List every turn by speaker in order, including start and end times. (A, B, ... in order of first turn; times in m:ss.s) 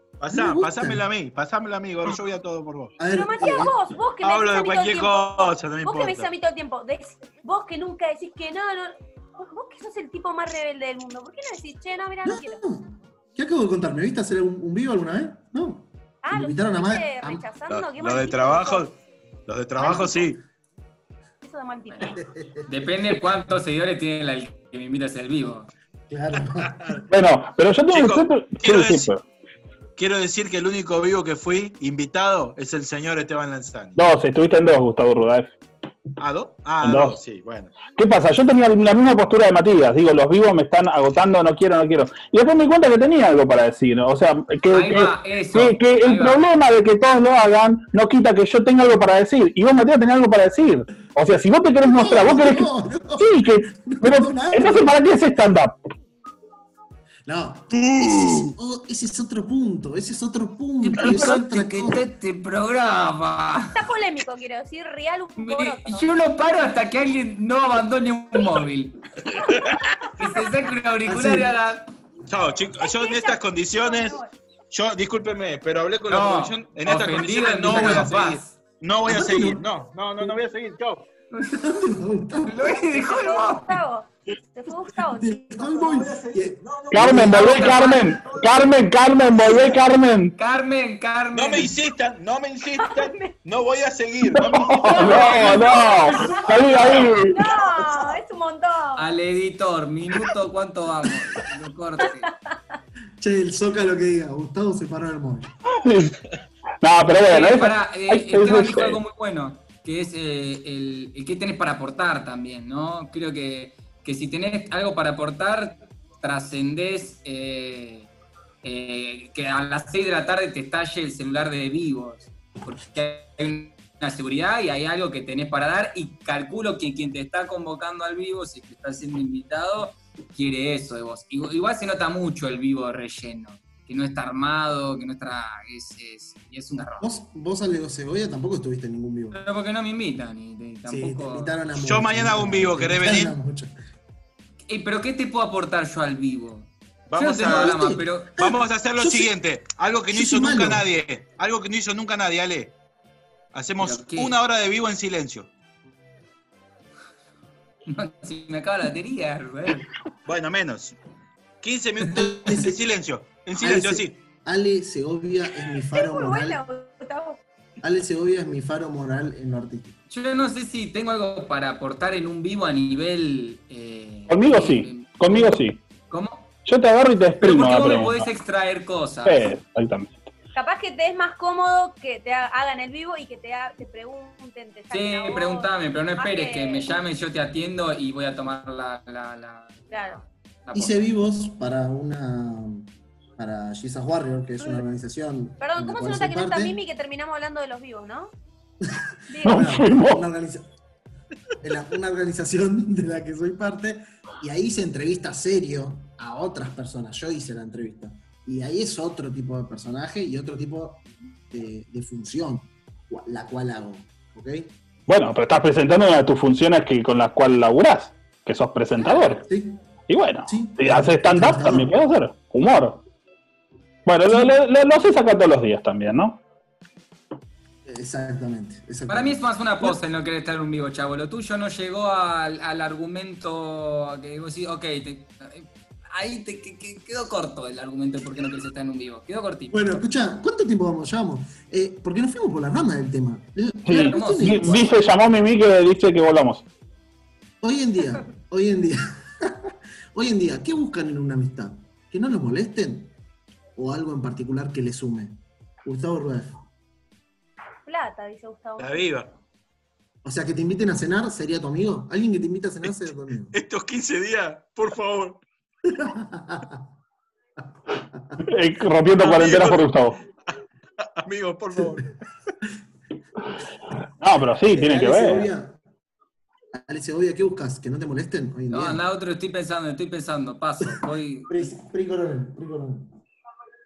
0:00.2-0:03.0 A
0:00.3-0:01.0 B
0:03.0-0:03.8 B
0:03.1-0:12.6 C
0:04.2-0:06.3 A
0:12.2-0:17.5 B
0:16.2-0:18.9 C
0:17.7-0:18.9 A
0:19.5-0:20.4 A
0:19.8-0:20.4 B
0:19.8-0:20.1 C
0:21.4-0:22.2 C
0:22.0-0:22.7 B
0:22.7-0:25.7 D
0:26.1-0:27.0 B
0:27.1-0:29.2 E
0:27.9-0:29.1 A
0:30.0-0:34.0 A
0:34.0-0:35.5 E
0:36.2-0:37.8 A
0:36.8-0:37.2 E
0:37.9-0:55.8 E
0:44.7-0:46.4 D
0:51.8-0:54.9 B
0:57.3-1:02.1 B
0:57.8-0:58.5 A
1:00.8-1:03.8 D
1:03.7-1:06.1 C
1:05.4-1:09.0 D
1:09.6-1:09.9 A
1:10.2-1:11.9 D
1:11.1-1:11.5 B
1:12.3-1:14.2 A
1:12.8-1:14.3 C
1:14.7-1:21.1 A
1:16.1-1:18.5 D
1:17.7-1:18.1 B
1:19.0-1:19.6 B
1:21.3-1:21.8 D
1:21.5-1:22.9 B
1:22.4-1:23.8 D
1:22.8-1:26.1 C
1:24.9-1:28.2 B
1:26.2-1:27.2 A
1:26.9-1:30.3 E
1:27.2-1:28.0 D
1:27.4-1:27.8 C
1:30.4-1:31.7 D
1:31.3-1:35.7 A
1:32.8-1:33.3 C
1:34.4-1:37.4 E
1:34.8-1:39.1 C
1:36.1-1:37.0 B
1:37.6-1:38.2 B
1:39.0-1:42.3 D
1:43.2-1:45.5 B
1:45.8-1:46.2 E
1:46.8-1:49.0 E
1:47.3-1:58.1 D
1:58.6-2:17.1 D
2:17.0-2:19.4 B
2:19.3-2:21.6 D
2:20.9-2:23.7 B
2:21.8-2:23.4 A
2:24.7-2:28.3 D
2:27.1-2:27.8 A
2:27.4-2:29.3 B
2:28.4-2:32.8 A
2:30.1-2:30.9 B
2:33.5-2:35.5 A
2:33.8-2:34.4 D
2:37.9-2:39.9 D
2:40.3-2:41.0 A
2:41.6-2:44.2 A
2:42.1-2:42.8 B
2:43.6-2:46.6 B
2:45.9-2:47.4 C
2:47.8-2:50.0 B
2:50.1-2:56.5 D
2:54.3-2:55.8 E
2:56.6-2:58.3 E
2:57.4-2:59.5 D
2:59.2-3:00.2 E
3:00.5-3:06.9 C
3:04.9-3:09.8 D
3:09.9-3:10.2 C
3:10.7-3:11.1 D
3:10.7-3:16.8 B
3:15.6-3:18.3 C
3:18.9-3:20.7 B
3:19.3-3:19.6 C
3:19.4-3:20.2 E
3:21.6-3:34.7 B
3:35.1-3:39.5 E
3:39.0-3:39.9 B
3:40.1-3:43.0 E
3:40.5-3:42.0 B
3:44.1-3:46.4 E
3:47.8-3:50.0 B
3:49.1-3:59.8 D
3:59.7-4:04.9 B
4:03.9-4:06.6 E
4:03.9-4:04.6 D
4:07.6-4:13.1 B
4:13.8-4:16.6 B
4:17.8-4:19.0 C
4:18.8-4:19.4 A
4:20.2-4:23.6 B
4:23.5-4:25.4 A
4:25.9-4:26.8 B
4:28.4-4:30.2 E
4:29.2-4:29.9 A
4:31.0-4:32.1 A
4:34.2-4:35.5 E
4:34.7-4:35.8 B
4:36.7-4:39.0 B
4:38.7-4:41.5 D
4:40.8-4:43.1 B